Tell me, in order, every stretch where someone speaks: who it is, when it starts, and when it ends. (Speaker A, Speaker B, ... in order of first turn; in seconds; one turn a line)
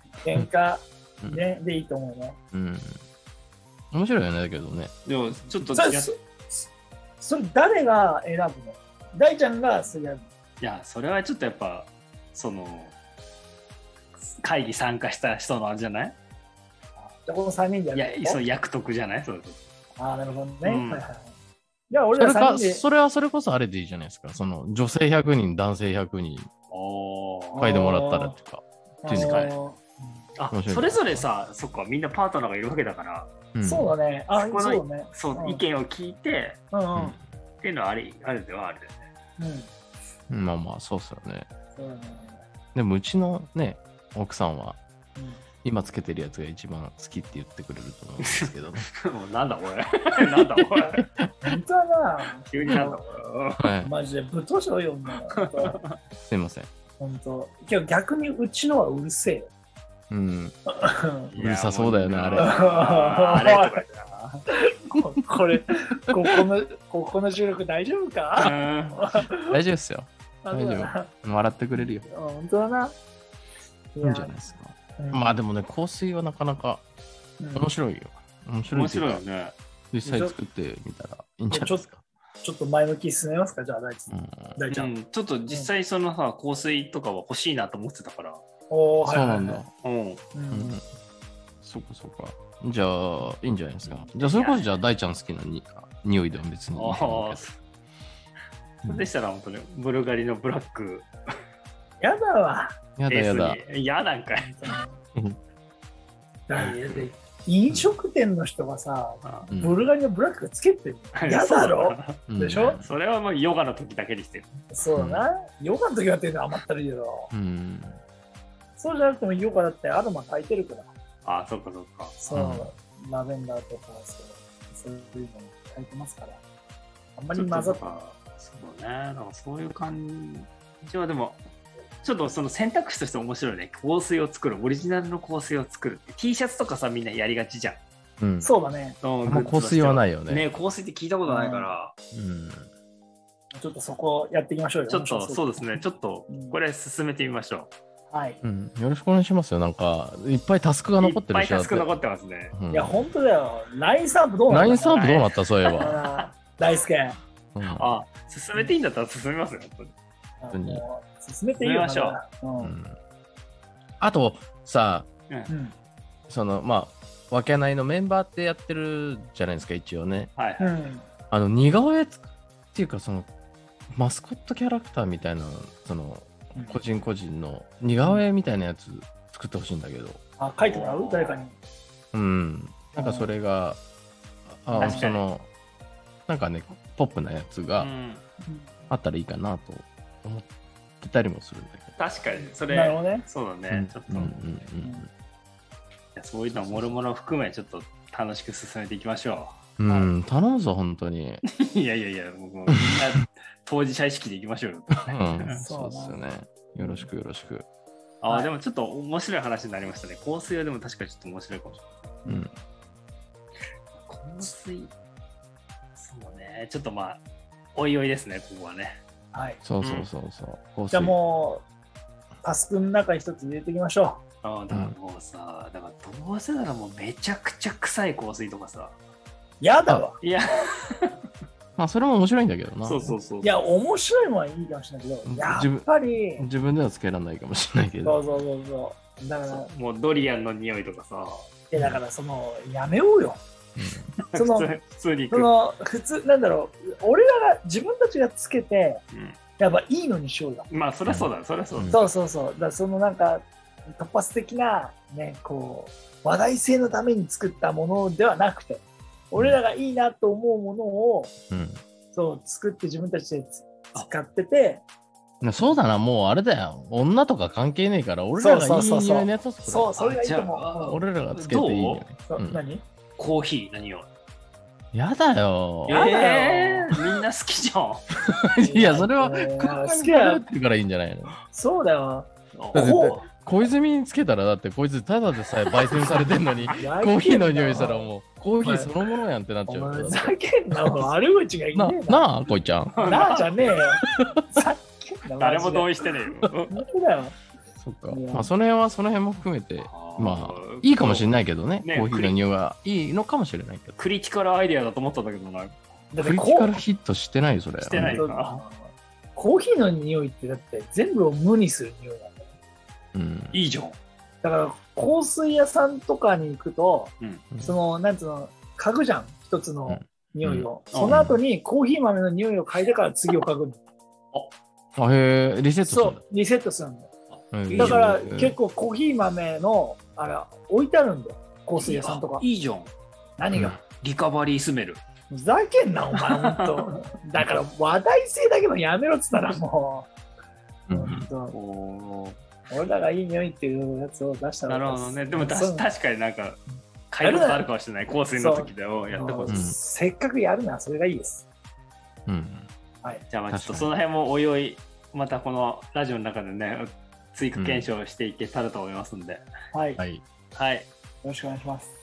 Speaker A: 0.2-2.4
Speaker B: 2.5-3.0
Speaker B: 3.9-4.9
Speaker C: 5.0-6.1
Speaker A: 5.7-6.7
Speaker A: 7.2-10.3
Speaker C: 10.6-12.9
Speaker C: 14.4-16.1
Speaker A: 17.0-18.4
Speaker C: 17.9-19.6
Speaker A: 20.0-21.3
Speaker C: 20.6-21.0
Speaker A: 21.9-22.8
Speaker B: 22.2-26.5
Speaker C: 26.7-27.6
Speaker A: 27.5-28.4
Speaker B: 27.6-29.5
Speaker A: 29.0-30.2
Speaker C: 29.1-29.5
Speaker C: 30.4-33.3
Speaker B: 30.5-31.3
Speaker B: 33.5-33.9
Speaker A: 33.6-35.6
Speaker C: 34.3-36.6
Speaker A: 36.7-37.1
Speaker B: 36.9-37.2
Speaker C: 37.6-39.0
Speaker A: 39.4-39.7
Speaker B: 40.3-41.5
Speaker A: 41.8-42.4
Speaker B: 42.8-44.8
Speaker A: 45.2-45.4
Speaker B: 45.6-48.9
Speaker C: 48.2-48.5
Speaker C: 49.0-51.0
Speaker A: 51.4-53.0
Speaker C: 52.5-53.6
Speaker B: 53.6-53.9
Speaker A: 53.8-55.8
Speaker C: 55.3-56.0
Speaker B: 56.2-56.7
Speaker A: 57.0-59.5
Speaker B: 60.1-60.5
Speaker A: 60.7-61.3
Speaker C: 61.3-64.4
Speaker B: 61.4-62.5
Speaker A: 62.4-63.8
Speaker A: 64.5-69.5
Speaker C: 68.3-69.0
Speaker B: 69.4-72.1
Speaker A: 70.4-71.1
Speaker A: 71.8-72.9
Speaker A: 73.9-74.3
Speaker B: 74.0-76.8
Speaker A: 75.0-75.3
Speaker A: 77.4-77.7
Speaker B: 77.5-79.2
Speaker C: 78.7-79.5
Speaker B: 79.9-82.0
Speaker A: 80.0-80.3
Speaker A: 81.5-81.9
Speaker A: 82.4-84.9
Speaker B: 84.1-84.6
Speaker C: 84.7-88.4
Speaker A: 88.7-89.6
Speaker B: 89.0-89.7
Speaker C: 89.8-90.2
Speaker A: 90.3-90.8
Speaker B: 90.5-90.8
Speaker B: 91.6-97.5
Speaker C: 94.1-94.7
Speaker C: 96.7-97.5
Speaker C: 98.8-101.1
Speaker A: 102.0-102.8
Speaker B: 103.0-103.6
Speaker C: 103.1-104.5
Speaker A: 104.4-105.0
Speaker A: 106.5-112.8
Speaker B: 106.5-107.1
Speaker C: 109.2-109.5
Speaker B: 109.5-109.9
Speaker C: 111.1-112.2
Speaker B: 112.3-112.9
Speaker C: 112.8-114.5
Speaker A: 114.7-117.3
Speaker B: 114.9-115.3
Speaker B: 117.3-118.0
Speaker A: 118.8-120.9
Speaker C: 121.2-122.2
Speaker A: 122.2-126.4
Speaker B: 122.3-122.7
Speaker A: 127.2-128.0
Speaker C: 127.3-131.4
Speaker C: 132.0-137.8
Speaker B: 138.2-138.5
Speaker A: 138.4-139.0
Speaker C: 139.0-141.9
Speaker B: 139.2-140.5
Speaker A: 141.2-141.7
Speaker B: 142.1-142.7
Speaker A: 143.5-146.6
Speaker C: 144.9-147.7
Speaker A: 148.1-148.4
Speaker B: 148.4-151.9
Speaker C: 151.0-152.5
Speaker B: 152.5-153.1
Speaker A: 152.7-155.1
Speaker B: 154.5-156.0
Speaker C: 154.9-156.2
Speaker A: 155.8-157.2
Speaker B: 157.5-158.0
Speaker C: 157.7-159.9
Speaker A: 160.4-162.8
Speaker B: 160.5-160.8
Speaker C: 161.5-162.2
Speaker B: 162.6-162.9
Speaker B: 164.0-165.1
Speaker A: 165.5-165.8
Speaker B: 166.3-170.3
Speaker C: 170.3-170.7
Speaker A: 170.6-171.1
Speaker B: 171.3-173.3
Speaker B: 173.9-180.2
Speaker A: 176.5-176.8
Speaker A: 180.4-181.5
Speaker C: 180.6-181.5
Speaker B: 182.1-183.8
Speaker A: 183.0-183.3
Speaker B: 184.5-185.5
Speaker A: 184.7-185.1
Speaker C: 184.8-185.2
Speaker B: 186.3-187.9
Speaker C: 187.8-188.2
Speaker A: 188.4-188.8
Speaker B: 188.9-190.5
Speaker B: 191.0-192.0
Speaker C: 192.0-194.3
Speaker A: 192.3-193.3
Speaker B: 193.7-195.1
Speaker A: 194.8-195.0
Speaker C: 196.1-199.6
Speaker B: 196.5-197.0
Speaker B: 199.8-201.4
Speaker A: 199.8-200.1
Speaker C: 201.4-205.6
Speaker B: 202.8-203.1
Speaker B: 205.0-207.7
Speaker A: 205.5-206.2
Speaker C: 208.2-211.8
Speaker A: 212.2-212.5
Speaker B: 212.3-212.5
Speaker C: 214.0-214.9
Speaker C: 216.0-217.2
Speaker C: 217.8-219.0
Speaker A: 219.3-219.6
Speaker B: 219.6-221.1
Speaker C: 219.8-220.1
Speaker A: 220.9-221.6
Speaker A: 222.4-224.2
Speaker C: 224.4-228.9
Speaker B: 224.7-224.9
Speaker A: 229.6-230.2
Speaker C: 230.2-231.2
Speaker B: 231.8-233.1
Speaker C: 232.8-233.6
Speaker A: 233.1-236.4
Speaker B: 235.2-238.2
Speaker A: 238.0-239.7
Speaker C: 239.4-241.5
Speaker A: 241.7-243.4
Speaker B: 243.8-244.1
Speaker C: 244.2-245.5
Speaker A: 244.3-244.7
Speaker A: 245.3-249.0
Speaker C: 249.1-249.4
Speaker A: 249.6-250.7
Speaker C: 250.7-252.0
Speaker B: 251.1-252.1
Speaker A: 251.9-261.3
Speaker B: 261.5-261.8
Speaker A: 262.1-264.8
Speaker B: 265.4-270.0
Speaker A: 268.4-270.7
Speaker C: 270.0-272.1
Speaker B: 270.9-272.6
Speaker A: 272.2-272.8
Speaker C: 273.2-274.1
Speaker B: 274.9-276.0
Speaker C: 275.9-278.0
Speaker A: 275.9-277.0
Speaker B: 278.2-281.3
Speaker A: 278.6-280.4
Speaker A: 281.5-283.2
Speaker C: 282.5-282.9
Speaker B: 282.7-291.1
Speaker A: 286.7-288.1
Speaker A: 288.6-288.9
Speaker A: 289.7-292.2
Speaker B: 291.7-293.0
Speaker C: 292.9-293.6
Speaker A: 293.0-296.0
Speaker B: 294.0-294.4
Speaker C: 295.4-296.8
Speaker A: 296.7-297.3
Speaker B: 297.8-304.0
Speaker A: 298.1-298.5
Speaker C: 299.8-301.3
Speaker C: 301.8-302.4
Speaker C: 304.0-305.8
Speaker A: 306.1-306.8
Speaker B: 306.2-308.2
Speaker C: 307.8-308.6
Speaker A: 307.9-312.4
Speaker B: 313.1-313.6
Speaker C: 313.5-314.0
Speaker A: 314.4-323.8
Speaker B: 319.9-321.4
Speaker C: 320.9-321.2
Speaker B: 324.9-326.2
Speaker A: 325.8-327.1
Speaker C: 327.3-328.0
Speaker B: 327.5-328.5
Speaker A: 327.7-332.4
Speaker C: 331.8-332.9
Speaker A: 333.4-333.8
Speaker C: 333.8-335.0
Speaker A: 335.3-340.1
Speaker C: 336.1-336.9
Speaker B: 340.9-341.3
Speaker A: 340.9-341.5
Speaker C: 341.5-342.4
Speaker A: 342.7-345.9
Speaker C: 344.6-349.7
Speaker A: 347.2-347.7
Speaker A: 348.3-351.4
Speaker B: 349.5-349.8
Speaker B: 352.3-352.7
Speaker C: 353.3-359.4
Speaker B: 353.5-353.9
Speaker B: 357.5-357.9
Speaker A: 359.7-360.0
Speaker B: 360.0-360.2
Speaker C: 360.5-360.9
Speaker A: 361.2-361.9